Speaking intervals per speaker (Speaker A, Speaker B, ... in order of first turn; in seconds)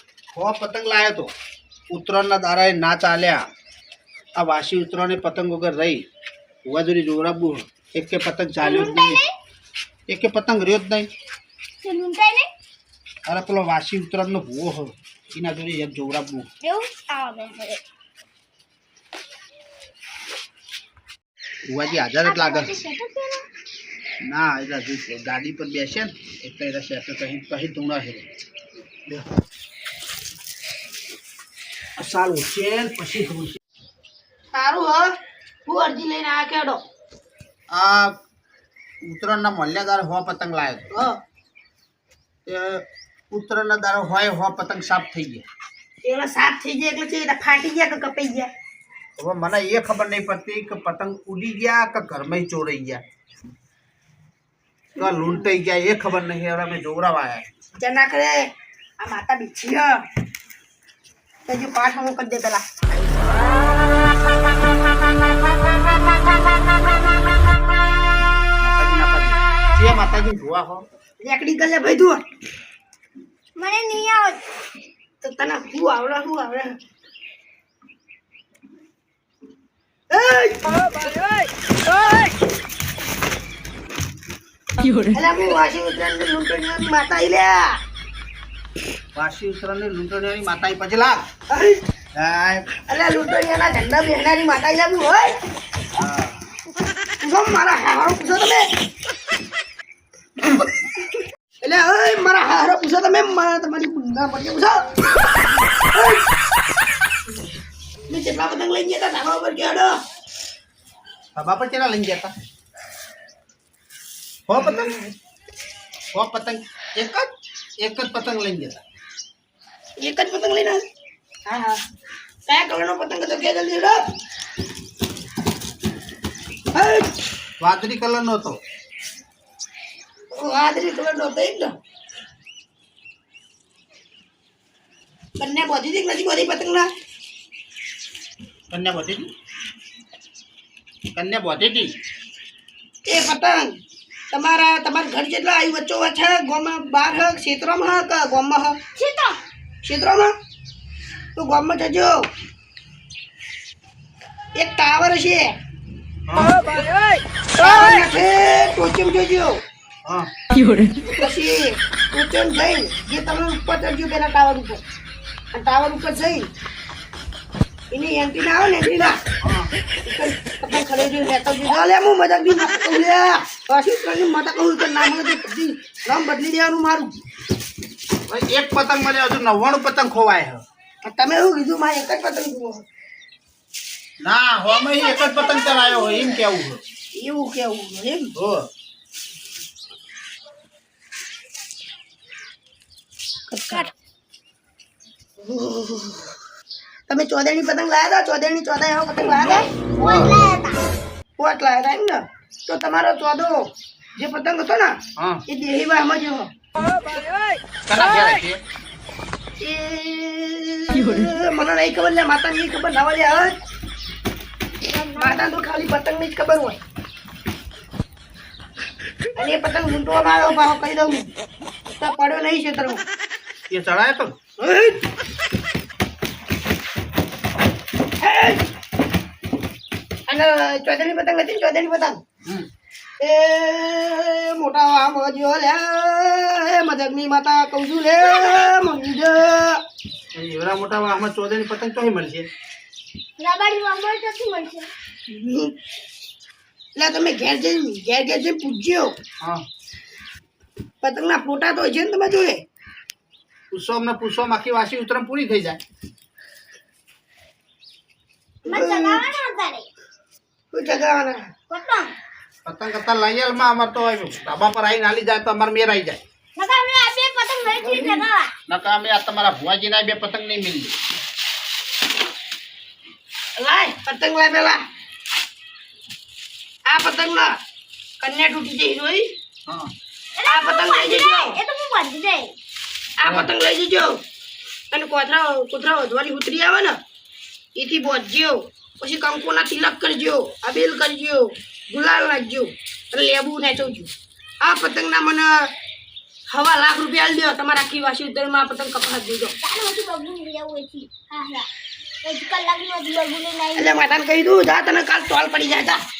Speaker A: 0.3-1.3, 1.9-3.4, 4.4-6.0, 6.7-9.2, 10.1-11.1, 13.2-16.5, 21.6-22.8, 24.2-28.3, 32.0-33.6, 37.7-38.2, 39.0-40.9, 42.4-45.5, 49.2-53.0, 55.0-57.5, 68.6-70.8, 89.1-91.2, 92.1-92.7, 96.0-96.4, 111.3-112.3, 114.5-114.9, 116.1-118.8, 127.6-128.6, 138.7-139.3, 141.1-141.9, 156.3-156.6, 160.0-160.3, 169.4-169.7, 178.3-180.6, 184.2-186.8, 188.3-188.7, 200.0-200.3, 205.2-205.4, 207.9-208.6, 223.7-224.3, 240.3-242.5, 253.7-255.8, 262.6-266.2, 268.7-270.9, 279.7-279.9, 283.2-283.5
Speaker B: 8.6-9.3, 11.8-12.5, 16.6-17.8, 22.0-23.4, 73.5-74.4, 148.9-149.4, 184.8-186.3, 199.9-200.8, 214.9-215.5, 238.3-238.7, 243.4-244.9, 258.7-259.9, 261.7-262.1, 266.6-268.5, 280.4-282.5, 299.6-301.7, 302.2-304.0
Speaker C: 34.5-35.1, 35.6-36.8, 40.9-41.2, 46.0-48.5, 57.8-60.0, 61.5-63.3, 71.2-72.2, 75.2-76.8, 80.1-81.0, 85.0-87.8, 91.5-91.8, 92.8-95.3, 97.2-98.7, 101.6-104.9, 105.9-106.2, 108.1-110.0, 120.0-120.8, 121.5-121.8, 122.5-124.0, 126.7-127.1, 130.3-131.7, 135.4-136.9, 143.0-143.7, 144.3-148.8, 149.8-150.3, 151.3-152.3, 154.5-155.5, 157.6-159.6, 161.0-164.8, 165.5-166.5, 167.9-169.2, 170.0-177.2, 181.0-182.8, 187.1-188.3, 193.5-193.9, 195.4-196.3, 197.1-199.7, 201.4-206.5, 209.6-213.6, 215.1-216.8, 219.3-221.3, 222.0-223.0, 224.6-225.0, 228.2-228.6, 230.3-232.2, 233.2-239.8, 245.3-245.7, 246.9-249.1, 251.0-252.6, 258.6-259.2, 260.7-261.5, 267.8-268.2, 273.6-274.8, 276.9-277.6, 278.2-279.3, 280.4-281.6, 283.2-284.2, 284.9-287.0, 287.7-295.7, 296.5-299.6, 303.8-306.0